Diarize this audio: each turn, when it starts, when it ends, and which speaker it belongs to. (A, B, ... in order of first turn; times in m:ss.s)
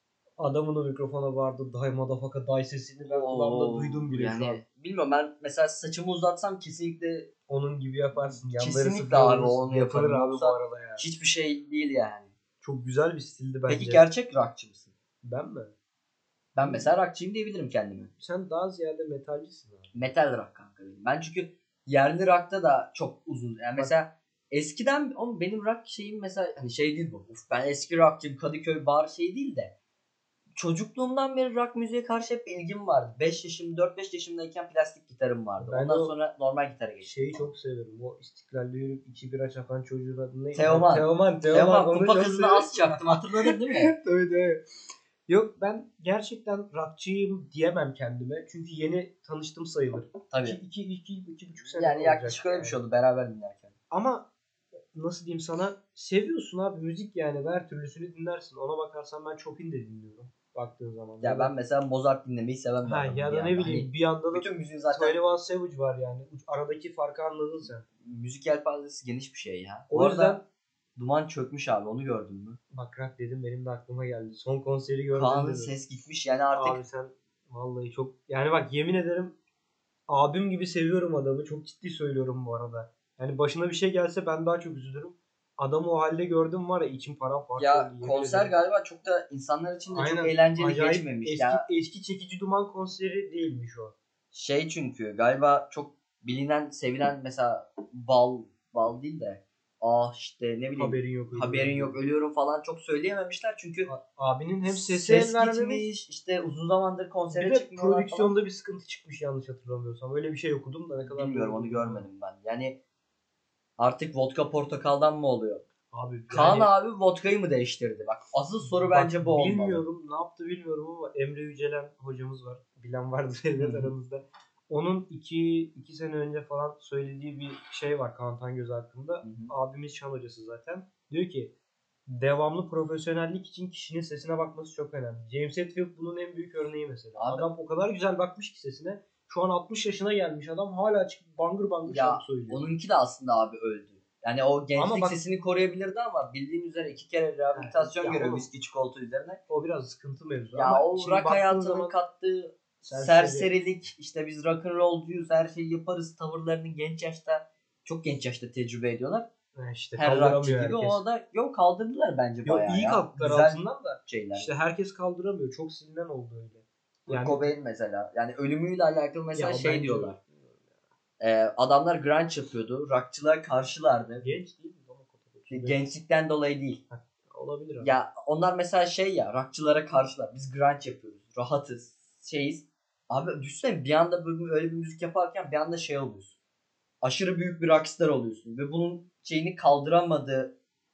0:00.4-0:04.6 A
0:03.1-0:07.3 B
0:07.5-0:11.1 A
0:08.2-0:12.3 B
0:12.6-0:14.0 A
0:13.7-0:14.9 B
0:15.2-0:15.7 A
0:16.6-0:18.1 B
0:16.6-0:16.9 A
0:18.2-0:20.0 A
0:19.9-0:29.7 B
0:30.6-0:37.5 B
0:35.6-0:36.1 A
0:37.0-0:44.6 A
0:40.5-0:43.9 B
0:45.3-0:52.8 A
0:50.3-0:50.6 B
0:51.7-0:53.7 B
0:53.9-0:54.3 A
0:54.9-1:01.5 A
1:01.2-1:05.2 B
1:02.8-1:07.8 A
1:08.0-1:10.4 B
1:09.9-1:10.4 A
1:11.0-1:12.6 B
1:12.7-1:15.7 A
1:15.1-1:16.8 B
1:16.5-1:19.4 A
1:20.1-1:28.5 A
1:27.6-1:31.6 B
1:29.9-1:34.0 A
1:34.3-1:43.9 B
1:40.8-1:42.0 A
1:43.9-1:45.9 A
1:44.7-1:48.3 B
1:47.3-1:52.1 A
1:51.0-1:52.8 B
1:53.8-1:55.6 B
1:55.9-1:56.7 A
1:56.3-1:59.8 B
1:58.6-2:11.5 A
2:03.6-2:03.9 B
2:09.2-2:09.5 B
2:12.1-2:22.6 A
2:17.2-2:17.5 B
2:21.9-2:29.4 B
2:24.8-2:25.2 A
2:27.5-2:28.5 A
2:29.5-2:32.0 A
2:30.6-2:39.3 B
2:32.8-2:33.5 A
2:39.5-2:41.0 A
2:40.0-2:44.5 B
2:42.4-2:47.6 A
2:47.1-2:50.2 B
2:49.3-2:50.8 A
2:51.2-2:54.3 B
2:54.2-2:55.8 A
2:55.5-2:56.8 B
2:56.9-2:57.9 A
2:57.8-3:06.4 B
3:07.0-3:10.5 B